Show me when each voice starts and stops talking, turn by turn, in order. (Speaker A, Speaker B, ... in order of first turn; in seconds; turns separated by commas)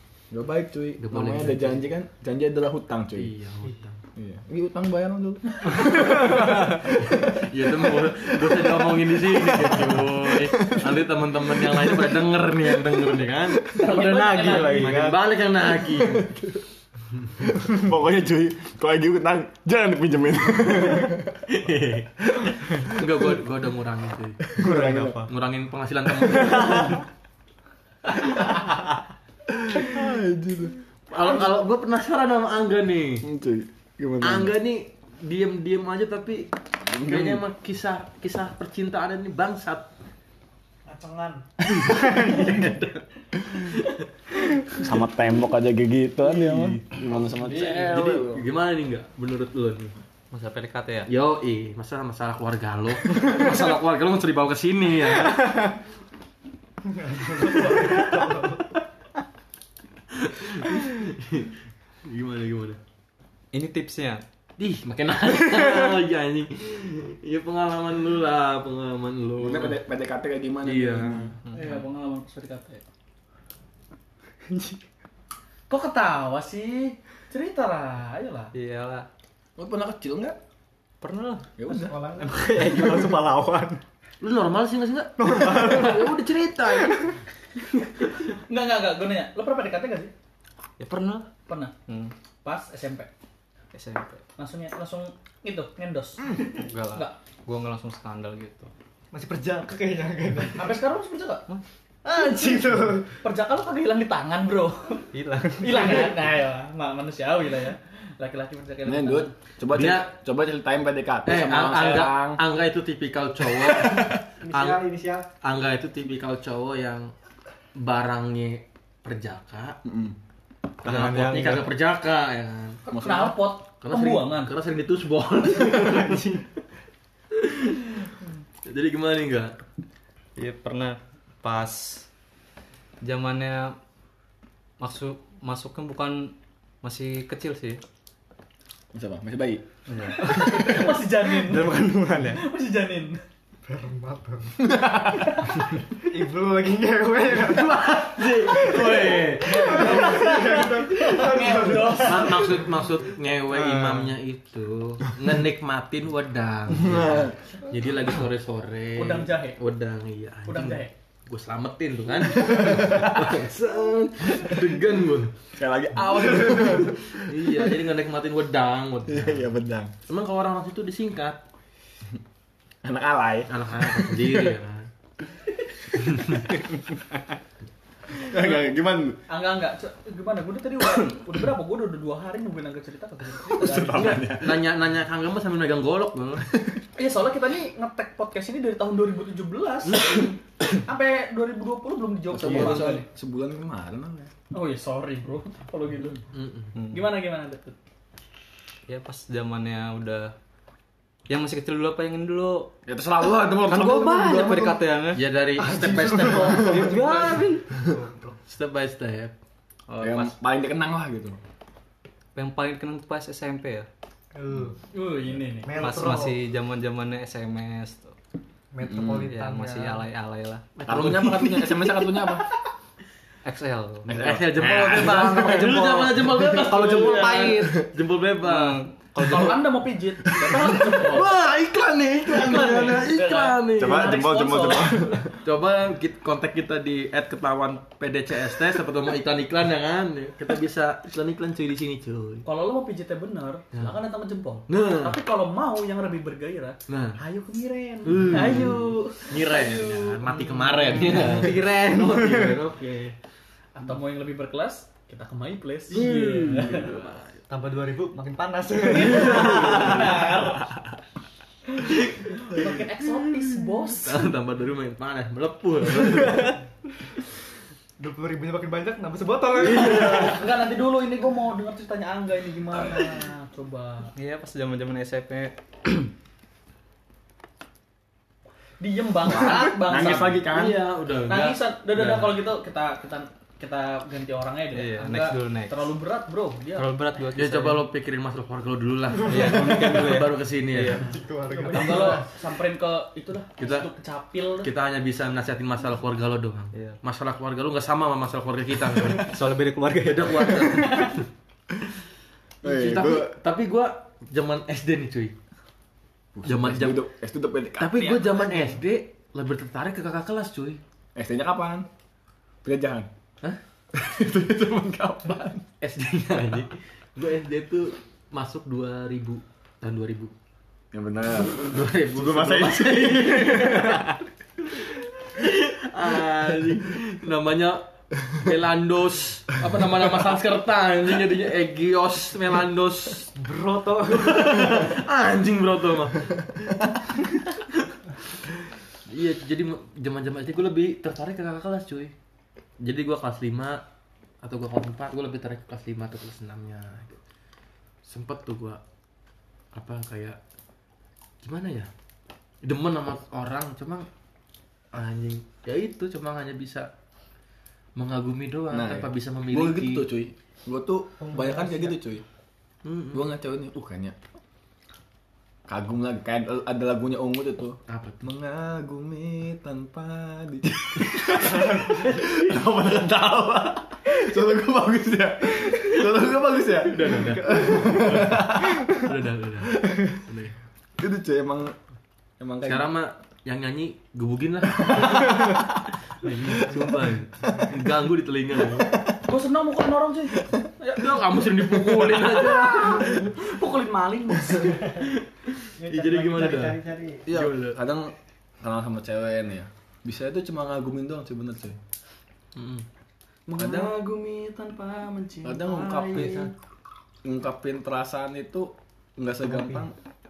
Speaker A: 0.3-3.3, Speaker B: 1.0-1.9, Speaker B: 3.1-4.0, Speaker A: 4.2-13.8, Speaker B: 5.8-16.3, Speaker C: 13.7-15.1, Speaker D: 13.9-15.2, Speaker A: 15.8-16.6, Speaker A: 17.4-21.4, Speaker B: 21.5-27.0, Speaker A: 22.4-23.2, Speaker A: 24.5-25.3, Speaker D: 24.6-25.2, Speaker A: 26.3-27.0, Speaker B: 28.3-28.9, Speaker A: 29.5-30.8, Speaker B: 31.1-33.3, Speaker A: 33.2-34.5, Speaker B: 34.2-39.9, Speaker A: 36.9-37.4, Speaker C: 40.9-41.4, Speaker B: 41.7-44.0, Speaker A: 44.8-48.4, Speaker B: 46.4-46.8, Speaker B: 47.3-49.9, Speaker E: 50.3-51.1, Speaker B: 51.1-55.7, Speaker D: 56.9-58.6, Speaker B: 57.7-58.2, Speaker B: 60.1-62.8, Speaker E: 63.5-64.2, Speaker B: 64.6-69.8, Speaker A: 69.4-71.3, Speaker B: 70.6-71.3, Speaker C: 71.5-72.8, Speaker D: 74.5-74.8, Speaker C: 75.7-78.5, Speaker E: 78.5-79.1, Speaker A: 79.6-80.4, Speaker E: 81.0-81.5, Speaker A: 81.6-82.0, Speaker D: 81.7-83.8, Speaker E: 82.2-83.2, Speaker B: 84.2-87.1, Speaker D: 85.2-86.2, Speaker C: 88.4-90.1, Speaker E: 90.8-91.3, Speaker C: 91.5-91.7, Speaker E: 91.9-92.1, Speaker C: 92.4-93.1, Speaker E: 93.7-94.2, Speaker C: 94.4-97.1, Speaker E: 96.4-98.7, Speaker D: 99.1-100.7, Speaker C: 100.5-101.4, Speaker D: 102.0-103.1, Speaker C: 103.2-105.0, Speaker E: 105.1-106.1, Speaker C: 105.6-109.3, Speaker A: 108.8-112.4, Speaker B: 109.7-110.1, Speaker B: 111.2-114.9, Speaker D: 114.4-115.2, Speaker B: 115.4-117.1, Speaker B: 117.7-119.8, Speaker A: 119.8-120.2, Speaker A: 120.8-121.6, Speaker B: 120.8-122.8, Speaker E: 120.8-121.6, Speaker C: 122.9-124.5, Speaker A: 122.9-123.3, Speaker B: 123.8-126.4, Speaker B: 127.3-128.1, Speaker B: 128.6-129.6, Speaker E: 130.3-132.1, Speaker E: 133.0-133.8, Speaker E: 134.8-137.8, Speaker A: 138.9-139.7, Speaker E: 139.9-140.6, Speaker C: 140.1-143.2, Speaker D: 140.3-140.9, Speaker D: 141.4-142.4, Speaker D: 143.7-144.6, Speaker A: 144.6-145.4, Speaker C: 145.2-145.6, Speaker D: 146.0-152.5, Speaker B: 147.3-151.2, Speaker C: 149.4-152.6, Speaker B: 151.9-165.3, Speaker A: 156.7-157.3, Speaker C: 159.0-159.6, Speaker C: 160.5-160.9, Speaker A: 162.3-164.8, Speaker A: 165.6-167.7, Speaker B: 167.1-169.5, Speaker A: 169.1-169.9, Speaker B: 170.1-171.4, Speaker A: 172.8-174.5, Speaker B: 173.5-174.9, Speaker B: 176.0-176.4, Speaker A: 178.2-179.2, Speaker C: 178.3-178.6, Speaker C: 179.3-184.3, Speaker A: 183.5-184.6, Speaker B: 183.9-186.5, Speaker C: 186.9-193.0, Speaker B: 189.9-190.3, Speaker A: 192.3-194.3, Speaker B: 192.4-193.0, Speaker C: 194.5-196.2, Speaker B: 196.3-196.7, Speaker E: 196.7-197.0, Speaker C: 196.9-197.8, Speaker E: 198.9-200.3, Speaker E: 201.3-202.7, Speaker A: 202.9-204.8, Speaker E: 203.6-205.2, Speaker B: 205.1-207.4, Speaker D: 205.6-208.3, Speaker C: 206.3-207.4, Speaker A: 206.4-206.9, Speaker E: 206.7-207.5, Speaker B: 208.4-209.3, Speaker B: 209.9-210.3, Speaker A: 210.0-211.4, Speaker E: 212.3-213.9, Speaker D: 214.3-214.8, Speaker C: 214.9-216.0, Speaker D: 215.6-216.4, Speaker E: 215.7-218.1, Speaker D: 218.7-220.0, Speaker A: 218.8-219.3, Speaker E: 219.2-220.6, Speaker B: 220.8-222.2, Speaker A: 220.8-222.5, Speaker E: 223.4-224.3, Speaker A: 224.1-227.9, Speaker B: 224.1-228.8, Speaker E: 225.2-227.8, Speaker D: 225.8-227.7, Speaker E: 228.4-229.7, Speaker C: 229.2-231.3, Speaker A: 230.4-233.0, Speaker B: 230.9-234.1, Speaker C: 232.3-235.2, Speaker A: 233.7-235.3, Speaker B: 235.3-242.4, Speaker C: 242.4-250.4, Speaker B: 244.7-245.2, Speaker B: 246.9-247.2, Speaker B: 248.1-253.1, Speaker D: 250.5-252.6, Speaker C: 253.8-256.9, Speaker B: 255.9-257.4, Speaker D: 257.5-260.2, Speaker C: 258.8-260.7, Speaker B: 259.0-260.1, Speaker C: 261.7-264.2, Speaker B: 261.9-262.6, Speaker B: 263.9-266.6, Speaker D: 268.0-270.4, Speaker C: 269.6-274.1, Speaker B: 269.6-270.4, Speaker E: 274.1-276.1, Speaker C: 278.8-280.4, Speaker A: 279.3-280.8, Speaker B: 280.0-282.3, Speaker C: 281.3-286.9, Speaker E: 284.7-285.9, Speaker E: 286.8-287.8, Speaker B: 287.3-291.1, Speaker E: 289.2-291.2, Speaker D: 289.4-289.9, Speaker D: 290.9-292.2, Speaker C: 291.5-294.7, Speaker E: 291.7-292.1, Speaker B: 293.6-293.9, Speaker B: 294.6-299.4, Speaker E: 296.7-297.0, Speaker E: 299.1-301.0, Speaker B: 300.0-301.2, Speaker A: 302.6-303.3, Speaker B: 302.6-305.3, Speaker A: 306.3-308.1, Speaker B: 306.4-307.0, Speaker B: 307.8-310.8, Speaker C: 308.0-308.8, Speaker A: 311.1-311.9, Speaker A: 312.6-313.1, Speaker A: 313.9-315.6, Speaker B: 315.8-320.3, Speaker A: 320.9-324.1, Speaker B: 321.4-333.3, Speaker D: 333.4-334.9, Speaker B: 334.1-337.9, Speaker B: 339.1-342.1, Speaker B: 342.8-343.8, Speaker B: 344.4-347.2, Speaker B: 348.1-348.8, Speaker B: 349.7-350.4, Speaker B: 351.4-351.9, Speaker B: 352.6-354.1, Speaker B: 354.9-356.9, Speaker B: 358.0-360.1, Speaker A: 358.7-362.2, Speaker D: 361.2-361.9, Speaker B: 362.8-363.2, Speaker A: 363.1-364.1, Speaker A: 365.7-379.0, Speaker B: 367.9-368.3, Speaker D: 371.7-371.9, Speaker B: 376.9-380.5, Speaker A: 379.8-380.1, Speaker A: 381.0-381.7, Speaker A: 382.4-382.9, Speaker B: 382.6-388.9, Speaker A: 384.9-385.6, Speaker A: 388.8-389.1, Speaker C: 389.2-394.9, Speaker B: 390.9-393.3, Speaker B: 394.8-397.8, Speaker D: 395.8-397.2, Speaker A: 397.2-401.8, Speaker B: 402.6-402.8, Speaker C: 403.5-404.3, Speaker A: 403.6-403.9, Speaker B: 403.6-406.5, Speaker A: 405.4-406.5, Speaker A: 407.2-409.9, Speaker D: 409.4-409.8